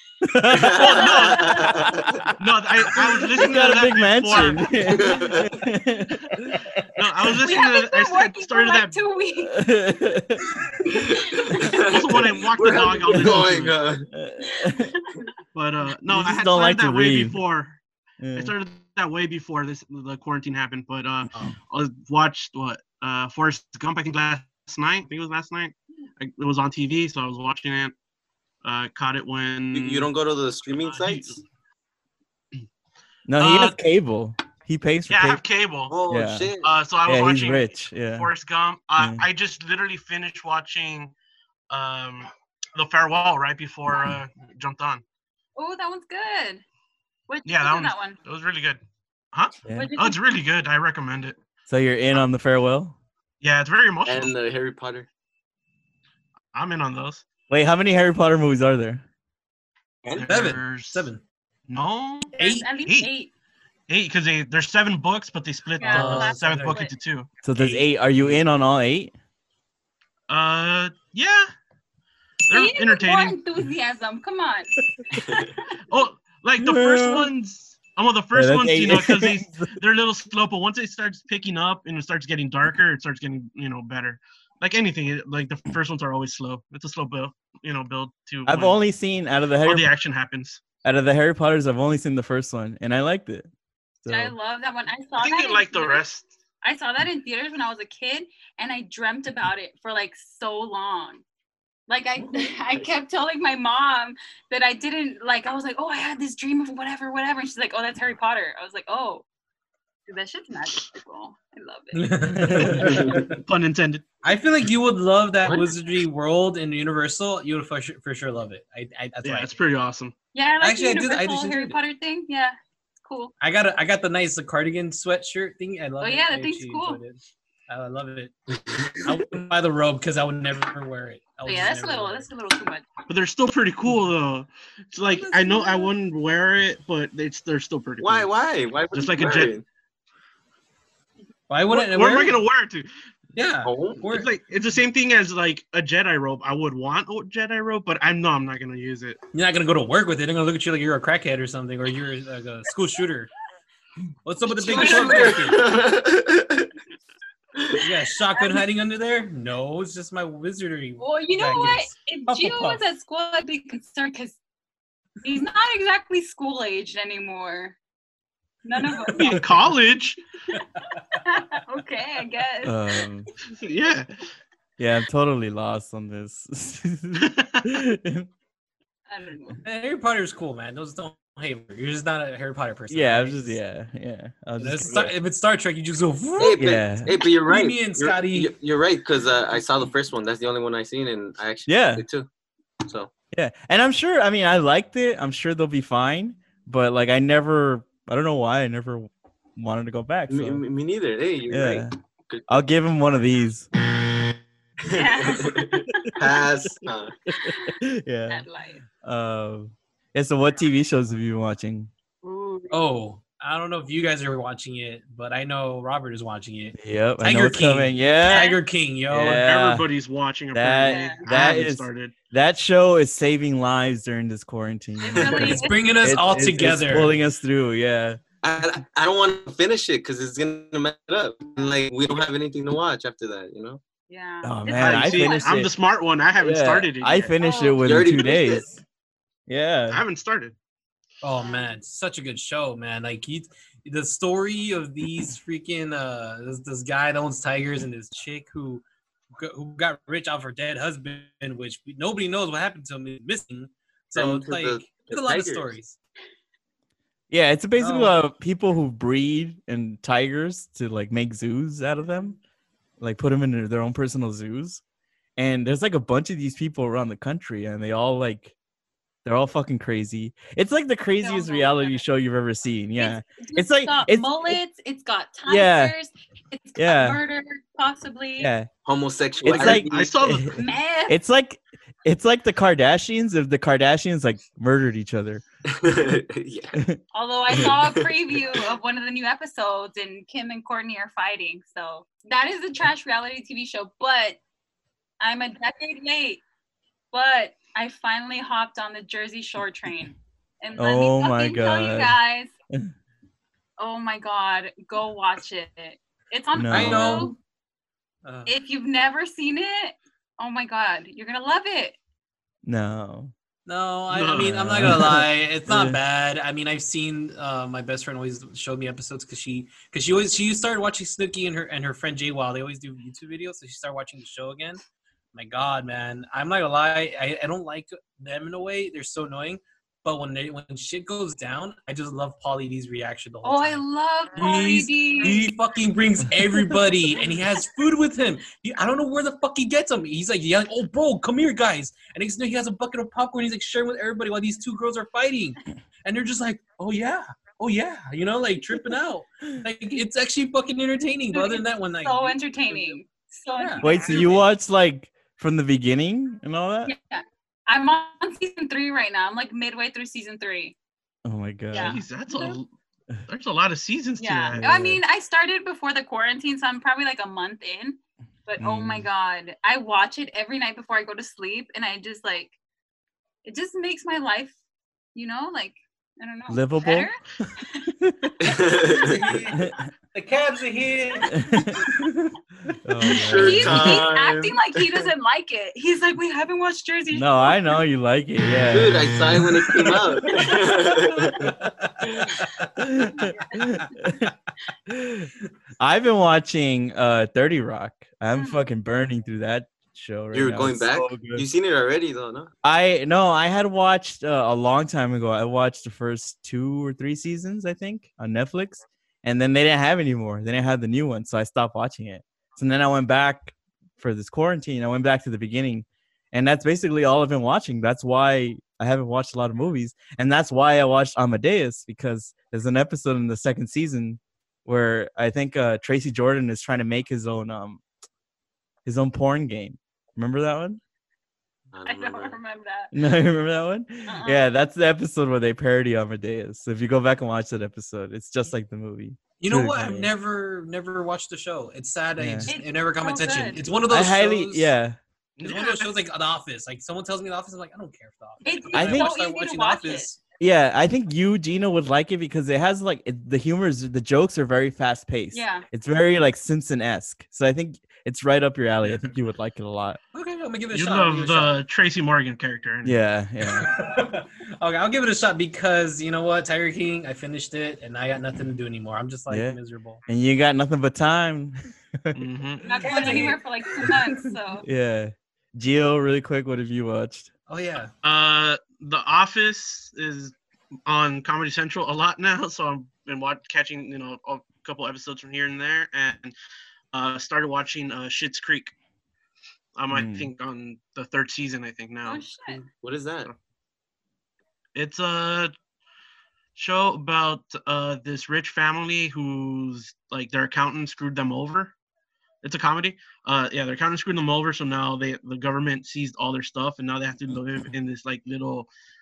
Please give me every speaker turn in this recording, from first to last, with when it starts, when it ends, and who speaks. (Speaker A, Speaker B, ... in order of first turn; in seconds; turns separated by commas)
Speaker A: 0.2-1.0, Speaker B: 0.5-2.2, Speaker C: 0.8-1.6, Speaker D: 1.0-1.6, Speaker A: 1.6-2.3, Speaker C: 2.4-4.7, Speaker A: 3.0-6.7, Speaker B: 4.9-5.5, Speaker C: 7.0-9.0, Speaker D: 7.4-9.6, Speaker A: 9.4-10.5, Speaker D: 10.9-11.8, Speaker B: 11.5-14.1, Speaker C: 11.9-13.7, Speaker A: 13.0-13.5, Speaker A: 14.1-14.9, Speaker C: 15.6-17.8, Speaker A: 16.1-17.4, Speaker A: 18.2-18.5, Speaker C: 18.4-27.9, Speaker C: 28.6-30.1, Speaker B: 29.7-31.4, Speaker C: 30.7-31.4, Speaker A: 33.3-35.4, Speaker C: 33.4-33.8, Speaker C: 35.1-36.0, Speaker B: 35.9-36.7, Speaker A: 36.1-36.5, Speaker C: 36.6-41.1, Speaker A: 37.0-38.3, Speaker A: 39.0-39.2, Speaker C: 41.7-45.0, Speaker D: 45.6-46.6, Speaker D: 47.3-48.2, Speaker C: 47.5-48.8, Speaker C: 49.3-51.4, Speaker A: 49.6-50.0, Speaker D: 49.7-50.2, Speaker A: 51.7-53.0, Speaker C: 53.4-54.3, Speaker B: 54.1-55.1, Speaker C: 56.5-57.2, Speaker A: 57.5-59.0, Speaker C: 60.1-61.1, Speaker E: 60.2-61.2, Speaker C: 61.7-63.1, Speaker D: 62.4-63.3, Speaker E: 62.4-62.6, Speaker C: 63.9-67.3, Speaker D: 65.8-66.9, Speaker E: 65.8-66.8, Speaker A: 67.4-69.1, Speaker E: 67.6-67.9, Speaker C: 70.3-71.5, Speaker C: 72.5-73.4, Speaker D: 72.5-74.7, Speaker C: 75.9-88.8, Speaker A: 76.6-77.3, Speaker A: 78.3-79.8, Speaker A: 88.5-89.9, Speaker C: 89.6-90.6, Speaker A: 90.8-93.5, Speaker A: 94.0-94.3, Speaker D: 94.1-96.0, Speaker C: 95.2-96.3, Speaker D: 96.6-101.2, Speaker D: 101.9-109.2, Speaker D: 110.1-112.6, Speaker E: 111.9-113.3, Speaker A: 112.4-112.8, Speaker C: 113.0-114.0, Speaker E: 114.2-119.6, Speaker C: 119.2-120.1, Speaker D: 120.3-123.3, Speaker E: 120.6-121.8, Speaker E: 123.4-128.3, Speaker D: 126.0-127.0, Speaker E: 129.0-132.3, Speaker D: 131.4-132.8, Speaker C: 133.1-138.3, Speaker E: 135.2-135.8, Speaker B: 138.0-139.7, Speaker C: 138.9-139.5, Speaker E: 141.5-142.4, Speaker C: 141.7-142.9, Speaker E: 143.3-144.3, Speaker B: 143.6-144.0, Speaker C: 144.1-149.2, Speaker E: 149.3-153.3, Speaker E: 154.2-155.7, Speaker D: 154.5-155.6, Speaker B: 154.7-156.7, Speaker E: 157.8-162.8, Speaker D: 161.0-164.4, Speaker D: 165.2-167.8, Speaker D: 168.7-169.4, Speaker C: 169.2-170.2, Speaker D: 171.2-172.8, Speaker A: 172.6-173.3, Speaker C: 173.6-174.1, Speaker A: 174.8-178.3, Speaker C: 177.2-177.7, Speaker D: 179.1-179.6, Speaker E: 179.6-183.6, Speaker A: 182.9-185.1, Speaker E: 184.6-186.6, Speaker B: 186.4-192.3, Speaker A: 186.6-187.1, Speaker E: 187.3-188.6, Speaker A: 191.7-192.1, Speaker B: 192.8-193.1, Speaker A: 193.3-200.6, Speaker B: 200.3-202.6, Speaker A: 201.5-201.9, Speaker A: 202.5-203.7, Speaker B: 204.9-207.2, Speaker D: 204.9-206.1, Speaker A: 206.0-206.4, Speaker A: 207.3-208.5, Speaker D: 207.4-207.7, Speaker D: 208.3-208.8, Speaker A: 209.0-211.9, Speaker D: 212.2-212.8, Speaker E: 212.7-219.4, Speaker A: 216.8-218.5, Speaker D: 218.3-218.6, Speaker A: 219.1-219.9, Speaker C: 219.3-222.1, Speaker A: 220.5-228.2, Speaker D: 220.9-221.2, Speaker D: 225.0-225.9, Speaker B: 225.1-225.6, Speaker E: 225.3-227.1, Speaker B: 228.4-233.8, Speaker D: 234.1-235.6, Speaker A: 234.4-235.7, Speaker C: 234.8-237.3, Speaker A: 236.4-238.8, Speaker D: 237.4-237.9, Speaker B: 237.8-238.7, Speaker A: 239.5-240.0, Speaker C: 239.9-240.6, Speaker E: 241.2-248.8, Speaker D: 241.4-241.7, Speaker E: 249.4-256.0, Speaker B: 254.2-255.8, Speaker A: 257.3-262.4, Speaker E: 257.8-258.2, Speaker A: 263.0-264.8, Speaker A: 265.4-268.5, Speaker A: 269.2-274.6, Speaker D: 271.2-272.0, Speaker D: 273.0-278.5, Speaker A: 275.5-275.9, Speaker A: 276.8-277.2, Speaker A: 278.4-278.7, Speaker B: 278.9-280.1, Speaker A: 279.4-285.4, Speaker C: 279.5-280.6, Speaker D: 280.6-281.2, Speaker B: 285.7-286.8, Speaker D: 287.1-294.4, Speaker B: 287.5-288.4, Speaker D: 295.2-296.4, Speaker D: 297.1-302.5, Speaker A: 300.8-302.2, Speaker D: 303.8-307.3, Speaker A: 306.5-307.3, Speaker E: 306.7-307.4, Speaker E: 308.2-308.5, Speaker D: 308.5-312.0, Speaker A: 312.6-313.3, Speaker E: 313.7-324.8, Speaker C: 314.1-315.0, Speaker A: 314.4-316.0, Speaker E: 325.3-333.8, Speaker D: 333.4-335.5, Speaker E: 334.4-353.0, Speaker D: 351.3-354.4, Speaker E: 353.6-354.3, Speaker A: 353.8-356.9, Speaker D: 356.9-360.8, Speaker A: 361.2-362.0, Speaker D: 361.7-362.6, Speaker C: 361.8-362.7, Speaker C: 363.3-364.6, Speaker D: 364.2-372.5, Speaker A: 364.6-365.0, Speaker A: 368.6-369.1, Speaker D: 373.4-374.6, Speaker D: 375.1-377.2, Speaker A: 376.5-377.1, Speaker A: 378.0-378.3, Speaker B: 378.4-379.3, Speaker E: 379.0-381.4, Speaker A: 381.4-382.1, Speaker A: 382.8-384.1, Speaker B: 383.1-385.1, Speaker D: 383.1-387.7, Speaker A: 387.1-389.5, Speaker B: 388.7-391.5, Speaker E: 389.8-390.1, Speaker E: 391.5-392.7, Speaker A: 392.8-394.3, Speaker D: 393.2-393.6, Speaker A: 394.9-401.4, Speaker D: 398.3-398.6, Speaker B: 400.3-402.5, Speaker A: 402.6-427.8, Speaker A: 428.9-430.8, Speaker B: 431.7-432.4, Speaker D: 431.9-432.9, Speaker A: 432.9-440.1, Speaker D: 434.1-434.5, Speaker E: 439.4-444.7, Speaker A: 442.2-442.5, Speaker D: 442.5-443.6, Speaker A: 443.9-445.0, Speaker C: 445.4-445.9, Speaker E: 445.4-450.2, Speaker D: 448.4-450.1, Speaker A: 448.7-449.1, Speaker A: 450.4-460.0, Speaker D: 455.3-455.7, Speaker E: 460.1-461.6, Speaker C: 460.7-463.0, Speaker A: 462.8-463.7, Speaker E: 463.5-470.0, Speaker A: 469.3-472.2, Speaker C: 472.1-473.3, Speaker D: 472.6-474.6, Speaker E: 472.8-474.2, Speaker A: 474.6-477.3, Speaker E: 477.5-477.9, Speaker C: 478.0-480.4, Speaker C: 480.9-486.4, Speaker C: 486.9-488.7, Speaker C: 489.8-492.6, Speaker A: 489.9-490.3, Speaker D: 492.1-492.6, Speaker B: 492.8-493.3, Speaker C: 494.8-495.5, Speaker C: 496.6-501.7, Speaker C: 502.4-508.7